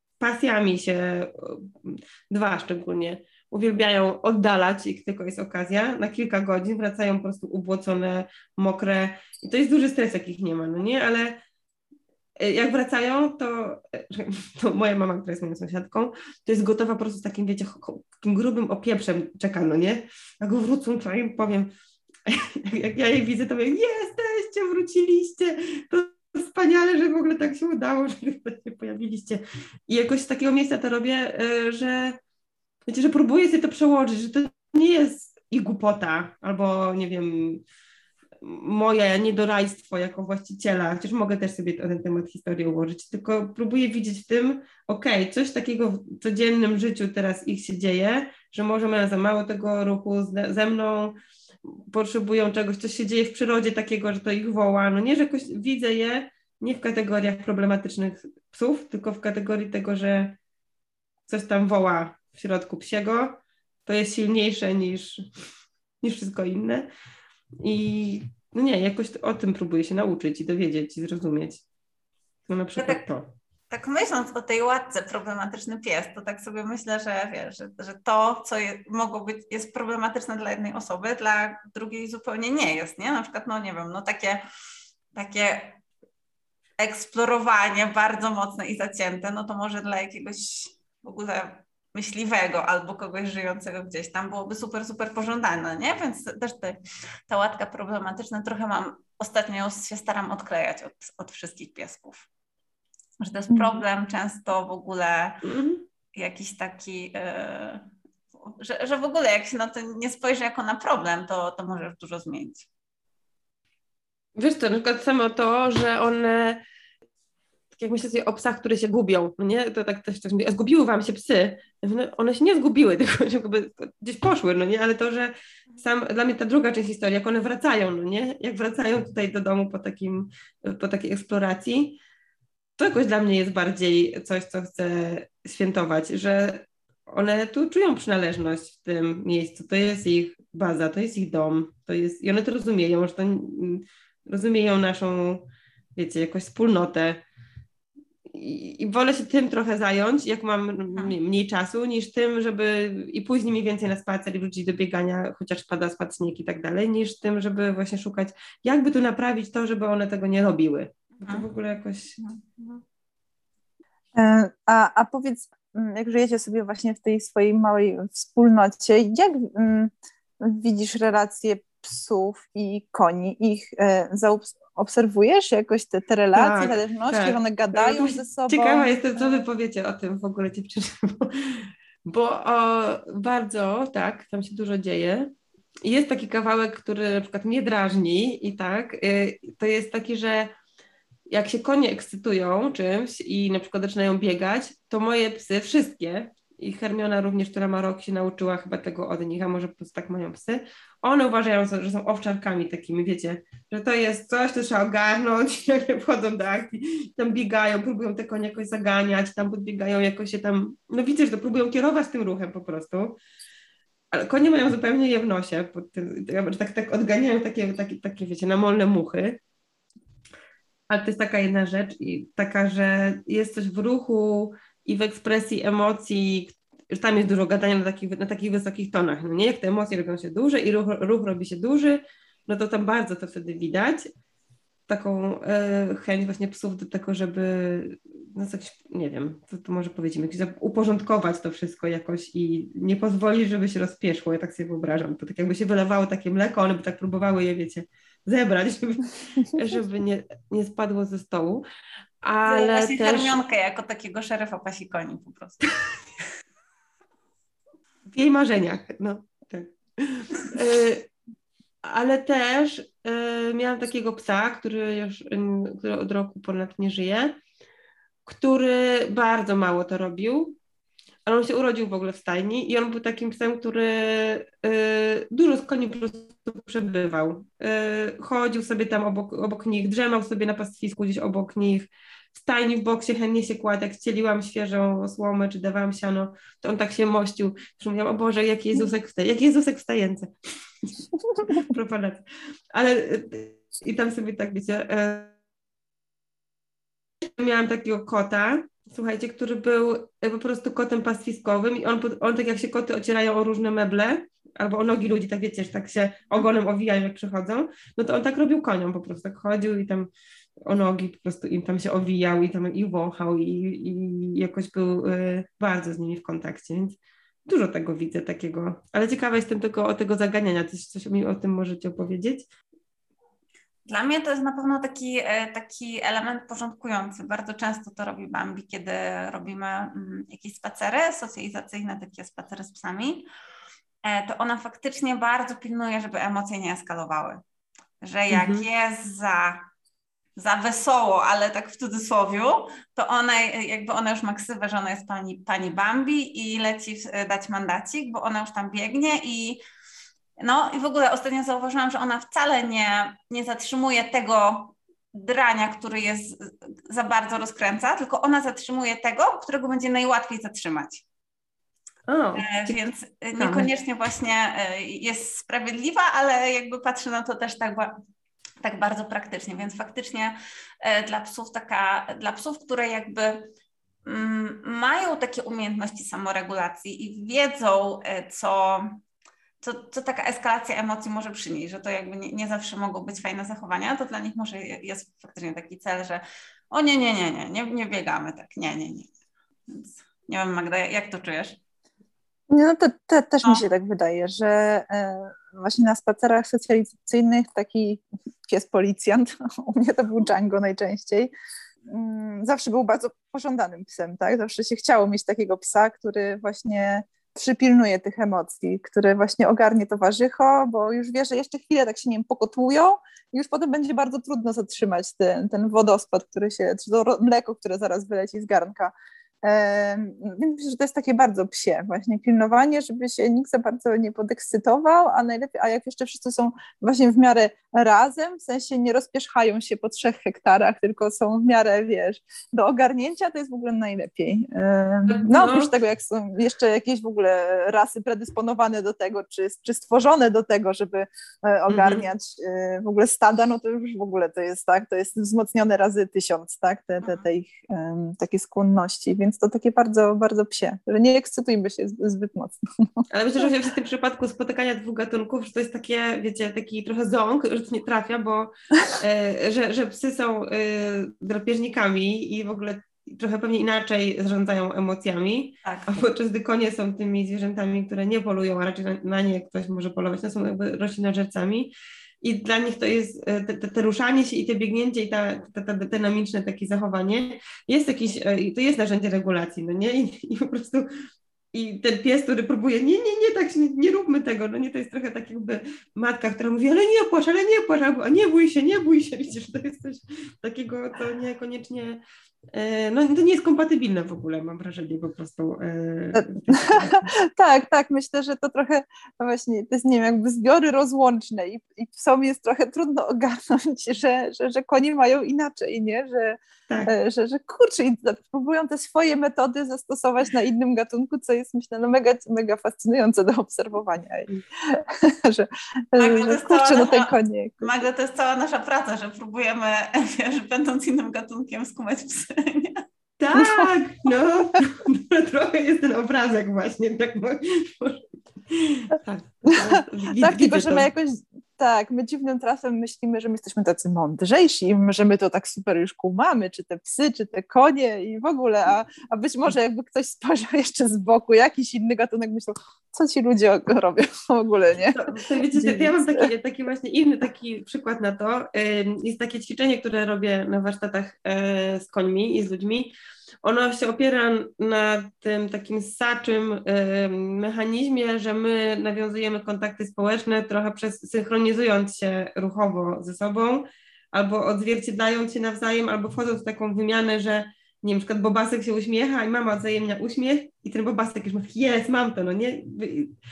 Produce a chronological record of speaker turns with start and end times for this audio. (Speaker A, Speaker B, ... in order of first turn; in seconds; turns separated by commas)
Speaker A: 0.2-11.4, Speaker A: 12.4-21.7, Speaker A: 22.3-32.2, Speaker A: 32.9-37.6, Speaker A: 38.4-51.1, Speaker A: 51.7-60.4, Speaker A: 61.3-65.2, Speaker A: 66.0-66.9, Speaker A: 67.6-71.6, Speaker A: 72.5-73.3, Speaker B: 72.8-73.0, Speaker B: 73.7-84.4, Speaker B: 85.1-85.8, Speaker B: 86.8-102.3, Speaker B: 103.2-105.4, Speaker A: 105.4-105.8, Speaker B: 106.1-107.9, Speaker B: 108.4-112.7, Speaker A: 114.3-116.6, Speaker A: 117.7-132.0, Speaker A: 132.8-147.2, Speaker A: 148.3-162.8, Speaker C: 164.1-179.4, Speaker A: 176.3-185.3, Speaker A: 185.8-190.5, Speaker A: 191.3-213.2, Speaker A: 214.1-219.4, Speaker A: 220.9-234.1, Speaker A: 234.9-251.6, Speaker A: 252.2-253.4, Speaker B: 252.4-255.7, Speaker A: 258.1-261.1, Speaker A: 261.8-267.3, Speaker A: 268.2-270.6, Speaker A: 271.2-290.3, Speaker A: 290.8-295.3, Speaker A: 297.4-310.1, Speaker A: 310.6-322.5, Speaker B: 323.9-333.3, Speaker B: 334.0-337.4, Speaker B: 338.0-339.6, Speaker A: 338.3-338.6, Speaker B: 340.4-349.6, Speaker B: 350.4-361.0, Speaker A: 362.1-362.8, Speaker B: 362.4-367.9, Speaker A: 363.4-363.7, Speaker B: 368.6-373.5, Speaker B: 374.1-379.0, Speaker B: 379.6-389.1, Speaker B: 389.7-391.6, Speaker C: 392.5-401.3, Speaker C: 401.9-453.1, Speaker A: 435.1-435.7, Speaker A: 441.7-442.0, Speaker A: 453.1-480.9, Speaker B: 465.6-466.0, Speaker A: 481.5-492.0, Speaker A: 492.5-497.1, Speaker C: 496.1-517.7, Speaker A: 506.7-506.9, Speaker B: 516.0-522.8, Speaker A: 523.2-530.9, Speaker C: 523.4-523.7, Speaker C: 529.5-546.3, Speaker A: 544.9-573.1